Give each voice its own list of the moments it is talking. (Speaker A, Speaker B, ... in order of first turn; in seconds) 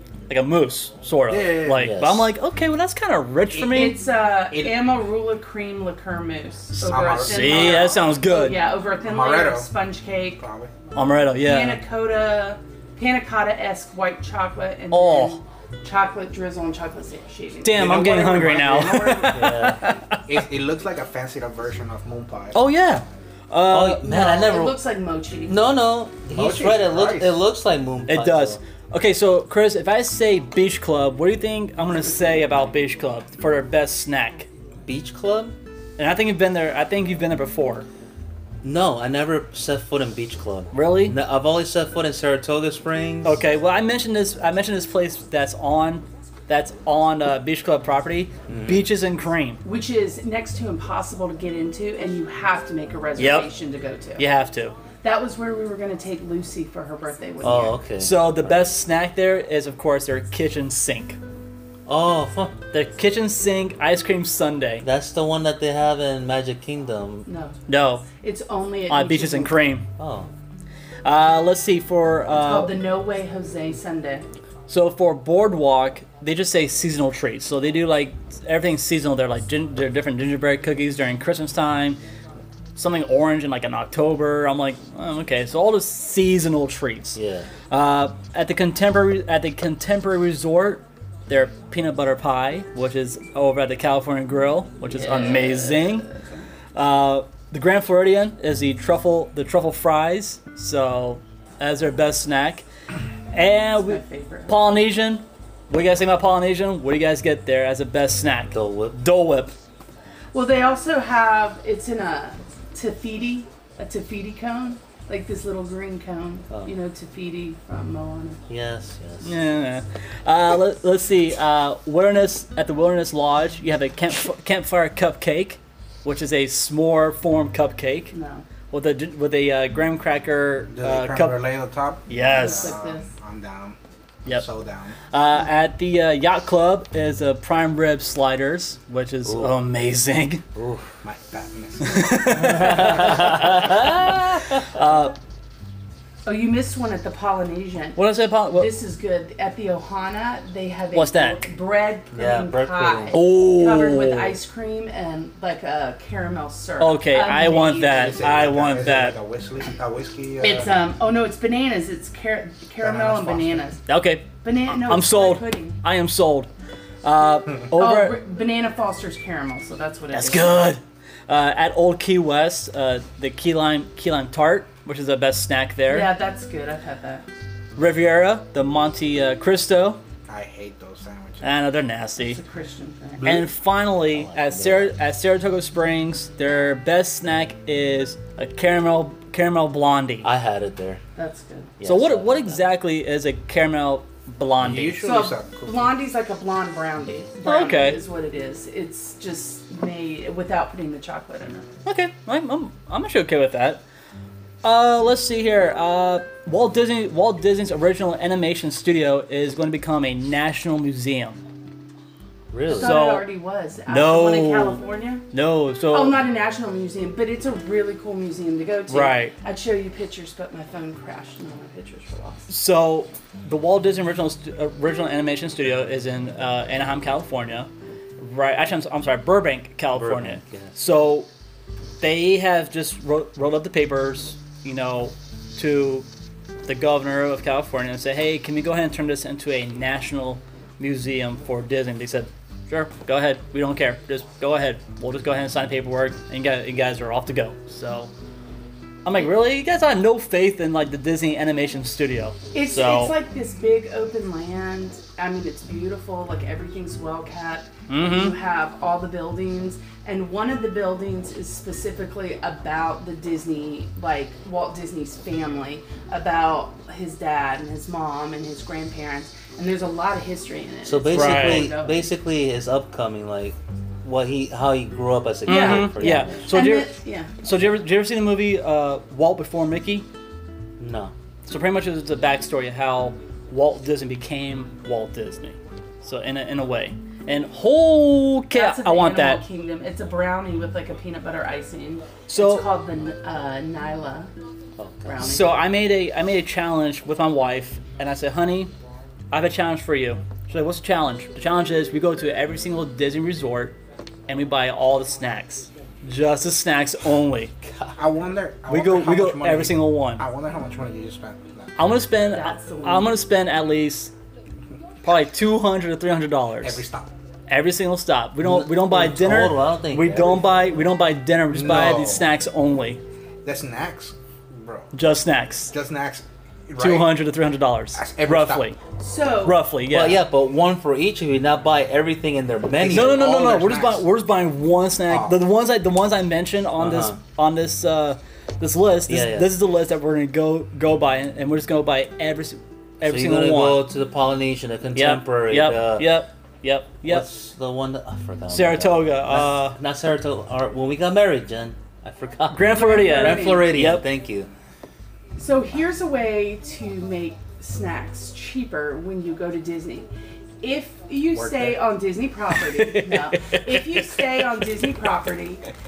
Speaker A: 0.3-4.0, 7.1-8.6, 10.9-11.8, 14.9-15.4, 17.6-20.2, 22.5-24.2, 28.1-34.5, 36.0-37.9, 40.7-41.1, 43.2-49.6, 53.1-53.5, 54.2-54.8, 58.0-61.2, 62.7-64.8, 67.7-68.1, 68.9-69.9, 71.0-72.8, 74.7-82.0, 82.7-87.2, 87.7-96.1, 96.7-102.7, 103.3-109.5, 119.2-128.1, 128.7-131.4, 132.1-132.7, 135.1-140.4, 141.8-145.2, 148.0-148.7, 150.9-151.5, 153.1-154.4, 156.8-159.2, 163.9-166.5, 167.0-168.2, 170.1-176.1, 177.8-180.0, 181.4-182.4, 183.2-190.3, 191.8-195.3, 197.4-198.0, 201.8-203.8, 204.6-211.4, 212.7-213.3, 213.9-216.2, 218.9-219.3, 222.5-231.3, 232.0-236.1, 236.7-248.1, 249.1-253.2, 257.9-258.4, 271.1-271.7, 275.5-280.1, 281.4-289.4, 292.3-292.7, 295.2-298.7, 299.3-303.8, 304.3-307.5, 308.7-310.2, 311.8-314.1, 315.0-316.8, 317.5-323.0, 324.9-325.7, 326.8-328.8, 329.4-330.2, 332.9-343.9, 344.9-347.3, 348.5-349.8, 352.5-354.1, 362.6-364.1
Speaker B: 1.3-1.9, 6.8-7.9, 9.0-9.7, 10.4-10.7, 17.7-19.6, 20.2-22.6, 26.2-27.4, 130.7-133.8, 134.3-134.9, 141.0-143.5, 157.9-160.7, 162.8-163.7, 180.3-181.5, 194.6-195.9, 307.9-311.9, 316.6-317.1, 321.5-322.3, 323.4-324.9, 325.7-327.1, 327.9-328.7, 332.8-334.0, 335.1-335.4, 361.3-361.7
Speaker C: 1.8-2.3, 19.3-19.8, 23.7-24.8, 25.5-28.6, 34.8-35.6, 38.6-43.4, 48.5-48.9, 57.4-58.5, 61.9-62.6, 64.8-67.3, 70.0-70.3, 87.2-87.5, 108.5-109.0, 118.5-119.3, 139.3-139.5, 140.6-140.9, 142.6-144.1, 152.1-153.2, 184.1-185.0, 190.2-191.0, 191.8-192.7, 212.5-213.0, 229.9-230.8, 270.9-276.5, 280.8-281.1, 294.8-295.3, 307.6-307.9, 318.4-320.8, 329.9-333.4, 336.8-337.2, 339.1-339.5, 343.0-346.1, 347.1-354.5
Speaker D: 3.6-10.4, 11.4-18.3, 19.2-19.9, 24.0-25.6, 49.6-54.2, 55.0-57.8, 67.3-69.6, 72.3-74.2, 94.9-96.4, 103.7-104.6, 110.3-118.4, 128.1-128.4, 132.2-133.1, 146.2-158.2, 160.4-165.8, 167.7-170.6, 175.9-177.2, 182.2-183.3, 191.2-191.7, 195.0-201.7, 212.7-215.2, 215.9-222.5, 252.5-272.1, 275.4-277.3, 288.5-294.3, 295.1-295.6, 312.3-313.2, 328.8-329.6, 352.7-353.8, 355.4-360.1, 360.6-365.6